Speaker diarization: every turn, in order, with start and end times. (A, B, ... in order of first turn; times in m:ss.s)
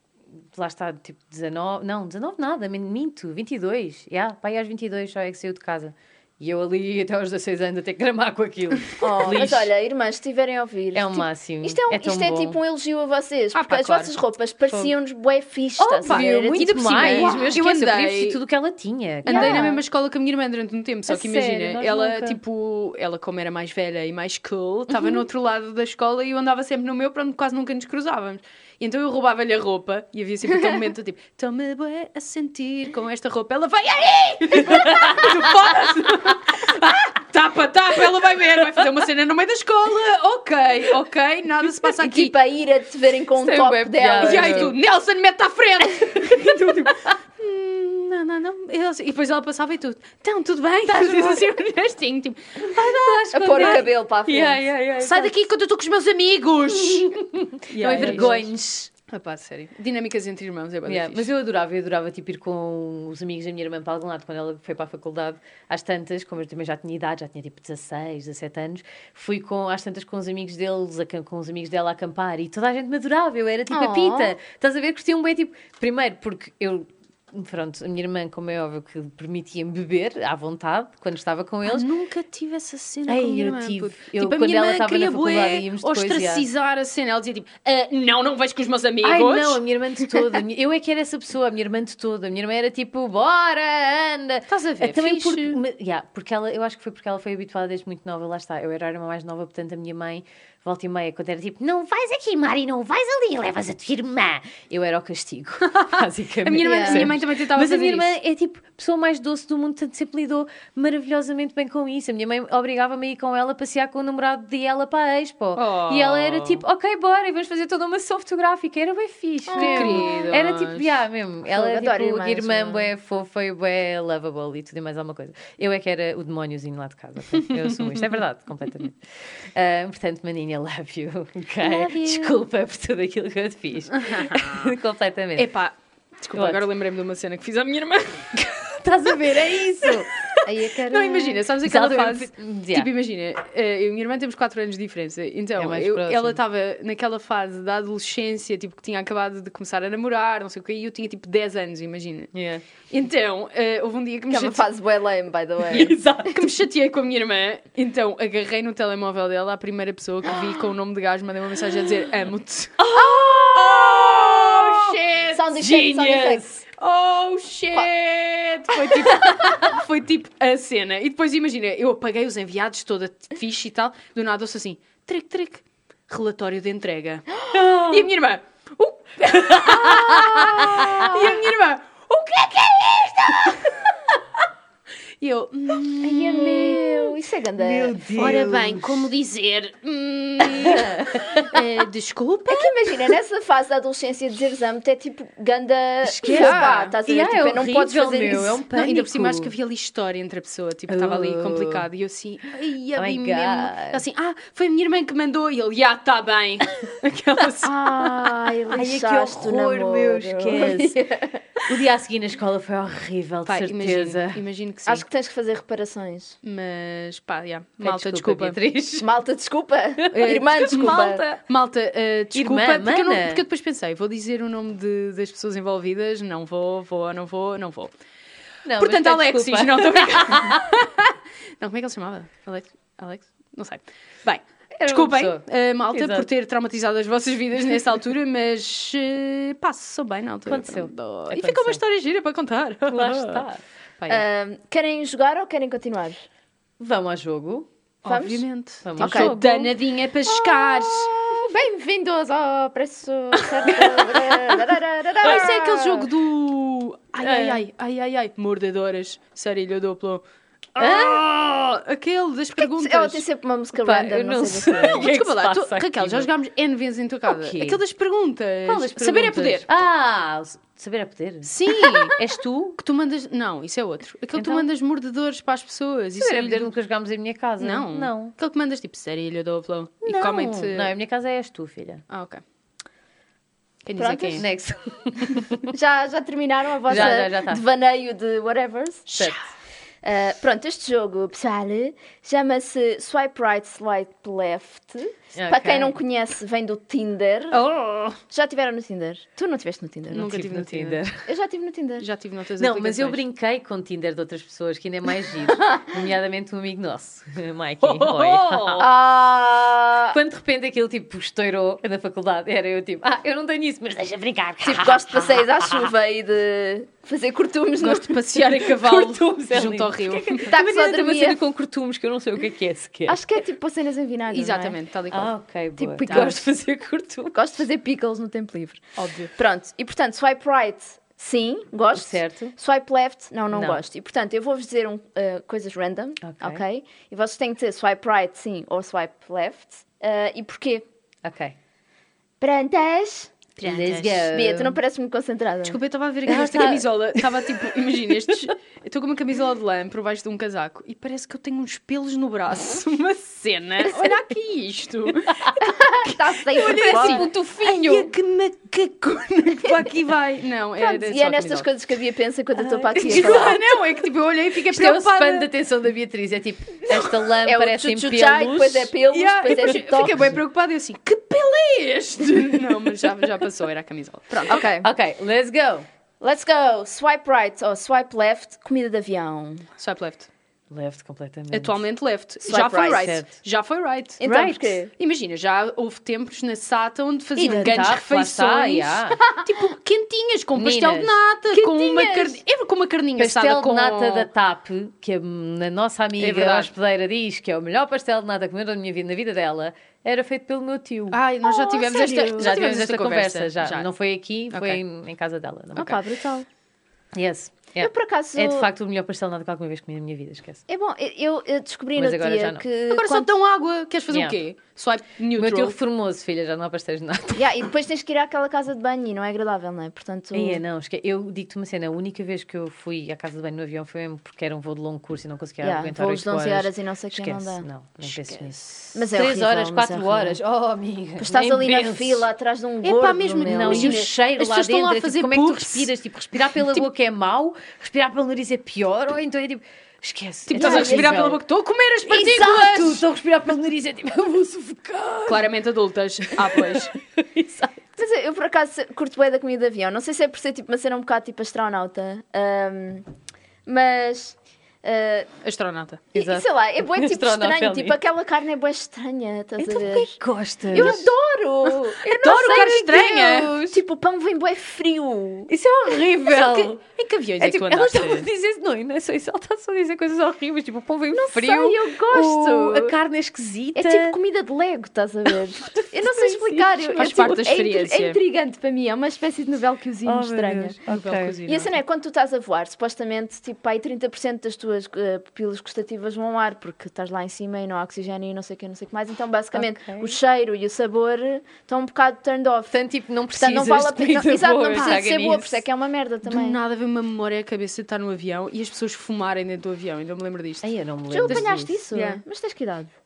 0:00.5-0:09.7 A
0:09.0-0:17.6 B
0:10.9-0:12.6 A
0:13.5-0:14.1 C
0:15.8-0:19.7 A
0:16.0-0:18.4 C
0:19.2-0:19.8 B
0:19.2-0:42.3 C
0:21.1-0:22.4 A
0:34.6-0:35.5 A
0:42.0-0:44.7 B
0:43.4-0:44.8 A
0:44.2-0:53.8 C
0:46.3-0:46.9 A
0:50.9-0:51.5 A
0:52.6-0:55.3 A
0:53.3-0:54.6 B
0:55.0-1:01.3 C
0:56.7-0:58.9 A
0:58.0-0:58.3 B
1:00.8-1:21.9 A
1:13.7-1:14.4 B
1:21.6-1:29.6 C
1:23.1-1:26.4 A
1:29.0-2:15.5 A
1:34.5-1:35.6 C
1:45.6-1:48.1 C
1:46.6-1:47.1 B
1:55.6-1:56.6 C
1:59.5-2:00.3 B
1:59.6-2:00.9 C
2:01.4-2:02.9 B
2:07.4-2:08.1 C
2:11.6-2:12.4 B
2:13.9-2:14.7 C
2:15.4-2:18.7 C
2:16.3-2:16.6 A
2:18.6-2:20.7 A
2:20.4-2:21.4 B
2:20.8-2:32.3 C
2:21.5-2:22.9 A
2:25.6-2:26.4 A
2:32.3-2:32.6 A
2:32.9-2:34.6 C
2:34.3-2:36.0 B
2:35.7-2:36.5 A
2:35.7-2:46.2 C
2:42.8-2:44.8 A
2:43.0-2:46.5 B
2:45.6-2:46.6 A
2:46.8-3:03.9 C
2:49.2-2:49.6 A
2:57.6-2:58.1 A
2:59.3-3:01.3 A
3:05.2-3:07.1 C
3:06.0-3:08.0 B
3:07.6-3:09.1 A
3:08.1-3:12.9 C
3:10.4-3:11.6 A
3:12.5-3:18.6 B
3:16.0-3:19.5 A
3:16.3-3:16.9 C
3:18.7-3:27.8 C
3:20.9-3:21.9 A
3:23.0-3:24.0 A
3:27.6-3:31.4 B
3:28.7-3:31.1 A
3:31.7-3:34.4 A
3:33.4-3:35.0 C
3:34.9-3:36.4 B
3:36.4-3:38.6 C
3:37.8-3:39.1 A
3:39.0-3:41.2 B
3:40.0-3:41.4 A
3:40.1-3:47.9 C
3:42.3-3:43.4 A
3:48.6-3:50.7 A
3:48.8-4:03.5 C
3:54.8-3:56.3 A
4:00.4-4:01.8 A
4:02.9-4:03.6 A
4:04.0-4:04.2 C
4:04.1-4:06.2 B
4:06.8-4:07.7 A
4:08.0-4:11.1 C
4:08.0-4:08.4 B
4:08.8-4:09.7 A
4:09.0-4:09.4 B
4:10.2-4:16.1 B
4:13.7-4:14.6 A
4:15.2-4:20.2 C
4:17.2-4:17.6 A
4:20.7-4:23.2 C
4:20.8-4:21.6 A
4:22.6-4:25.1 B
4:23.8-4:26.3 A
4:24.8-4:29.7 C
4:27.3-4:27.8 A
4:28.6-4:32.8 A
4:31.4-4:32.2 C
4:32.8-4:36.7 C
4:34.3-4:34.7 A
4:36.2-4:38.3 A
4:37.6-4:40.9 C
4:40.0-4:42.0 A
4:42.1-4:42.4 C
4:43.8-4:44.4 C
4:44.0-4:44.4 B
4:44.4-4:45.7 A
4:45.7-4:49.1 B
4:46.8-4:47.6 A
4:49.1-4:49.4 C
4:50.0-4:57.6 B
4:55.3-4:56.0 A
4:57.5-4:58.2 C
4:58.3-5:00.4 B
5:00.1-5:01.0 C
5:00.2-5:01.3 A
5:01.2-5:02.1 B
5:02.0-5:03.2 C
5:02.6-5:08.9 A
5:05.6-5:05.8 B
5:07.8-5:08.9 C
5:08.8-5:10.2 B
5:10.1-5:15.9 A
5:14.6-5:18.2 B
5:17.8-5:20.5 C
5:18.4-5:23.2 A
5:20.5-5:21.4 B
5:23.1-5:24.8 B
5:24.3-5:25.3 C
5:25.1-5:27.4 A
5:25.8-5:26.4 B
5:26.0-5:26.4 C
5:27.3-5:28.8 B
5:29.0-5:29.3 C
5:29.4-5:40.8 B
5:31.9-5:32.5 A
5:33.5-5:33.8 A
5:36.2-5:36.6 A
5:41.2-5:41.6 A
5:42.4-5:43.3 B
5:43.6-5:44.3 C
5:43.6-5:44.8 A
5:44.3-5:45.8 B
5:45.6-6:01.6 C
5:46.2-5:47.7 A
5:55.6-5:57.3 B
5:56.7-5:58.1 A
6:00.8-6:03.6 B
6:02.6-6:03.8 A
6:03.0-6:05.5 C
6:04.6-6:08.9 A
6:07.4-6:10.3 B
6:09.1-6:14.6 C
6:10.1-6:10.4 A
6:14.5-6:14.9 B
6:14.5-6:15.8 A
6:16.2-6:19.7 B
6:19.8-6:20.3 C
6:20.7-6:21.8 A
6:21.5-6:24.3 C
6:22.4-6:23.2 B
6:22.8-6:23.3 A
6:24.2-6:24.9 B
6:24.2-6:24.8 A
6:24.9-6:34.3 C
6:27.4-6:29.2 A
6:30.5-6:31.2 A
6:31.5-6:32.4 B
6:33.2-6:41.2 A
6:36.2-6:36.7 C
6:41.1-6:43.9 C
6:41.4-6:42.6 B
6:42.4-6:46.0 A
6:44.5-6:44.8 C
6:45.8-6:46.4 B
6:47.1-6:50.6 A
6:47.8-6:48.7 B
6:50.7-6:53.3 B
6:52.0-6:52.6 A
6:52.9-6:55.8 C
6:54.1-6:54.4 A
6:55.4-6:57.5 A
6:57.4-7:00.6 B
7:00.3-7:12.3 A
7:05.6-7:10.4 B
7:11.2-7:14.0 B
7:12.8-7:15.9 C
7:13.4-7:21.4 A
7:16.4-7:16.8 C
7:20.5-7:23.0 C
7:20.5-7:21.3 B
7:22.1-7:25.5 A
7:25.3-7:26.9 C
7:26.4-7:27.8 A
7:28.0-7:33.0 B
7:33.6-7:35.3 B
7:35.4-7:36.0 C
7:36.1-7:40.2 B
7:36.1-7:38.0 A
7:39.6-7:41.0 A
7:40.7-7:45.5 B
7:40.7-7:41.0 C
7:41.7-7:43.6 C
7:42.5-7:43.8 A
7:45.5-7:46.8 A
7:46.2-7:48.3 C
7:47.4-7:54.2 A
7:51.1-7:52.9 B
7:53.7-8:00.8 B
7:56.0-7:57.5 A
7:57.0-7:58.2 C
8:00.0-8:01.4 A
8:00.9-8:01.7 C
8:01.4-8:12.7 B
8:09.5-8:10.1 A
8:12.7-8:15.6 A
8:13.3-8:16.6 B
8:14.7-8:15.0 C
8:16.2-8:20.6 C
8:20.6-8:21.8 A
8:21.1-8:22.9 B
8:21.3-8:22.2 C